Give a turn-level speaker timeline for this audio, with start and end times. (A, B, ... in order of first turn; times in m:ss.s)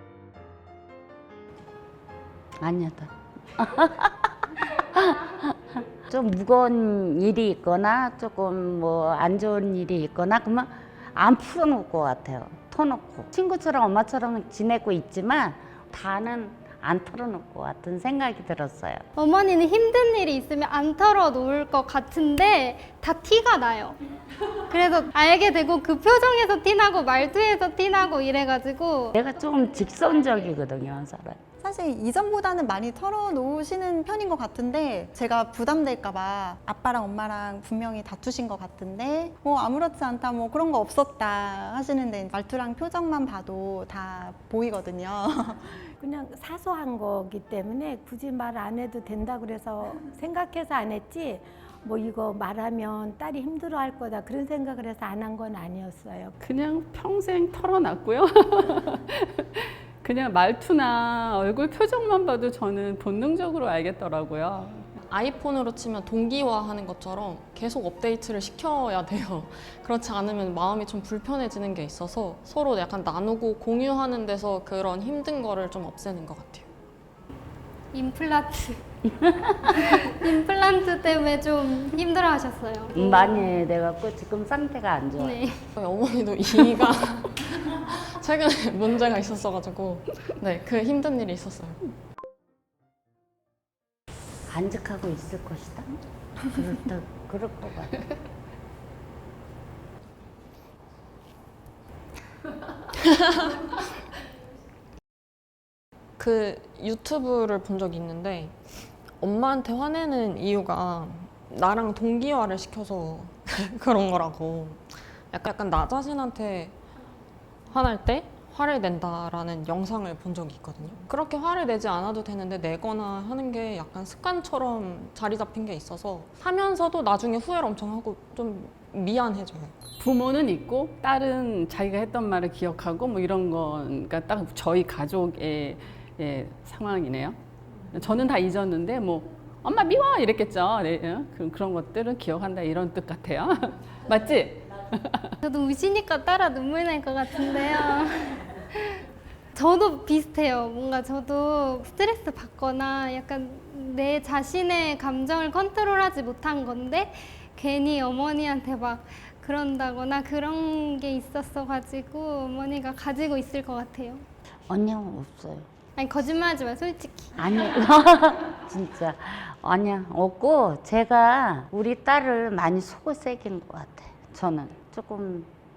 0:02.6-0:19.0 A
0:19.2-0:24.0 B
0:24.7-0:29.2 B
0:29.1-0:31.4 A
0:31.6-0:45.7 C
0:46.0-0:56.3 D
0:56.4-1:04.9 E
1:05.1-1:16.7 F
1:17.9-1:18.8 B
1:19.1-1:19.8 A
1:19.7-1:23.5 B
1:22.9-1:25.4 A
1:25.2-1:25.6 B
1:25.8-1:31.9 F
1:34.5-1:36.0 A
1:36.5-1:37.9 A
1:46.2-1:48.6 F
1:49.2-1:56.8 F
1:57.7-2:09.7 F
2:10.0-2:17.4 E
2:17.9-2:25.3 E
2:25.4-2:29.0 B
2:29.5-2:44.2 B
2:44.7-2:45.7 A
2:46.0-2:47.4 B
2:47.4-2:55.5 A